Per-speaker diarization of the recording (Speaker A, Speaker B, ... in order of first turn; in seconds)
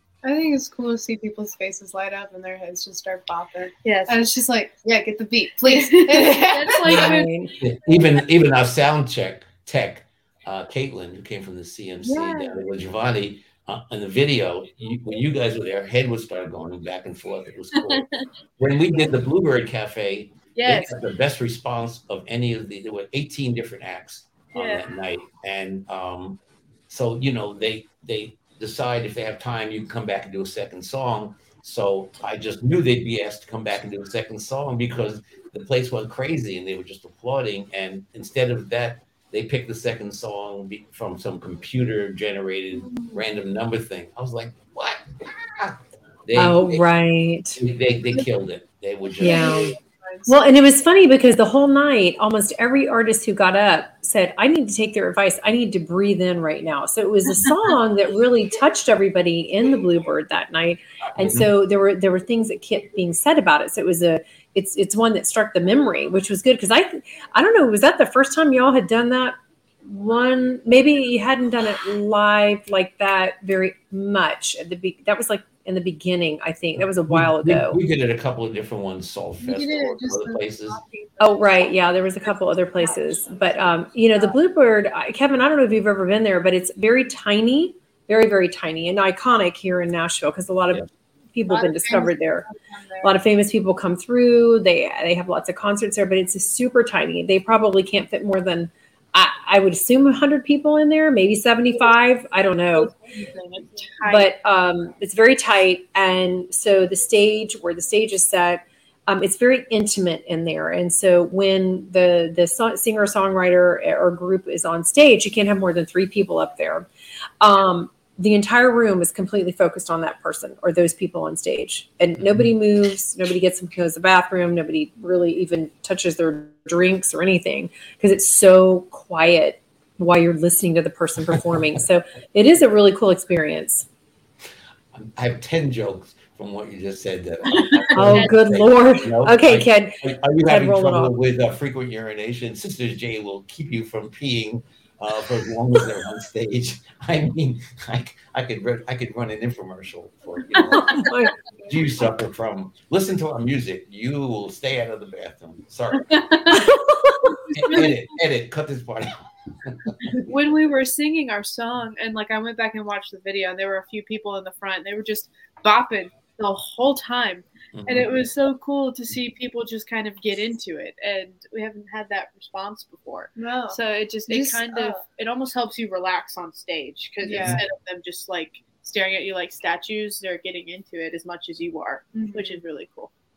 Speaker A: 0.2-7.2, 49.2-50.5, 79.4-81.8, 82.8-83.4, 91.5-93.2, 173.3-175.0, 177.2-177.7, 182.1-182.6
Speaker B: 3.8-4.2, 5.7-7.3, 12.1-12.6, 17.8-18.3, 20.5-21.0, 24.5-24.9, 103.1-104.3, 137.5-138.4, 150.6-151.1, 155.9-156.7, 157.5-158.0, 160.1-183.1
Speaker C: 6.9-7.5, 46.4-47.6, 49.2-49.8, 50.3-77.8, 81.2-92.5, 93.0-102.9, 104.1-116.9, 117.4-133.9, 137.9-141.1, 150.7-151.4, 156.5-157.4
Speaker D: 7.6-18.1, 18.6-46.8, 47.5-49.8, 61.2-61.5, 77.1-80.8, 122.2-122.4, 134.9-151.1, 151.7-156.1, 157.6-160.1, 167.8-168.1